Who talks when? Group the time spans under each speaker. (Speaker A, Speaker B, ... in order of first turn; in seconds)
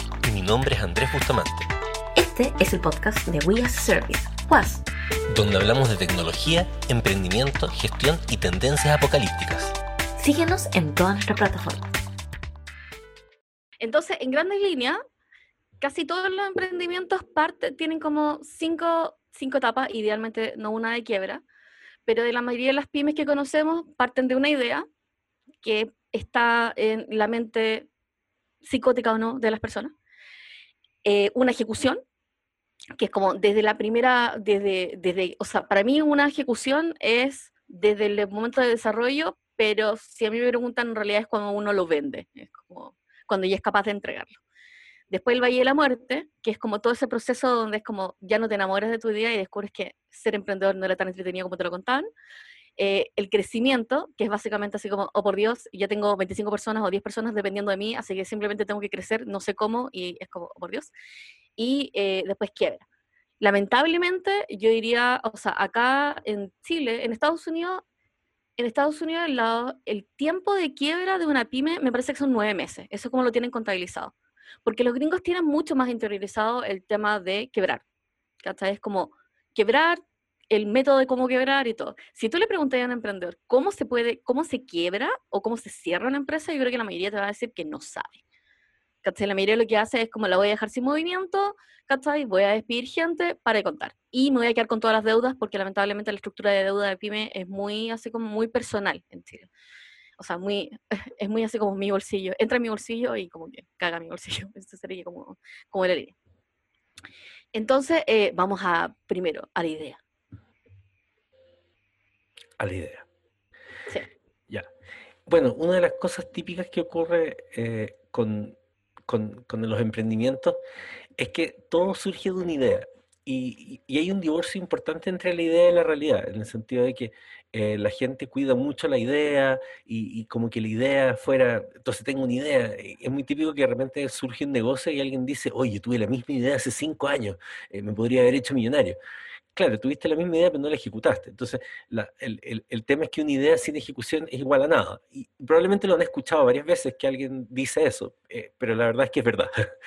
Speaker A: 0.2-1.7, 5.3-9.8, 112.6-113.0, 115.3-118.6, 119.1-120.6, 121.2-139.0, 139.6-149.5
Speaker B: 2.1-4.9, 10.2-11.9
Speaker C: 13.8-15.0, 15.8-21.4, 22.1-24.9, 25.6-27.9, 28.6-29.9, 31.0-32.0, 33.0-44.4, 45.1-52.1, 52.8-60.9, 61.6-62.8, 63.4-67.8, 68.6-74.1, 74.6-77.8, 78.4-80.0, 80.5-88.2, 89.0-99.5, 100.2-106.2, 107.5-110.0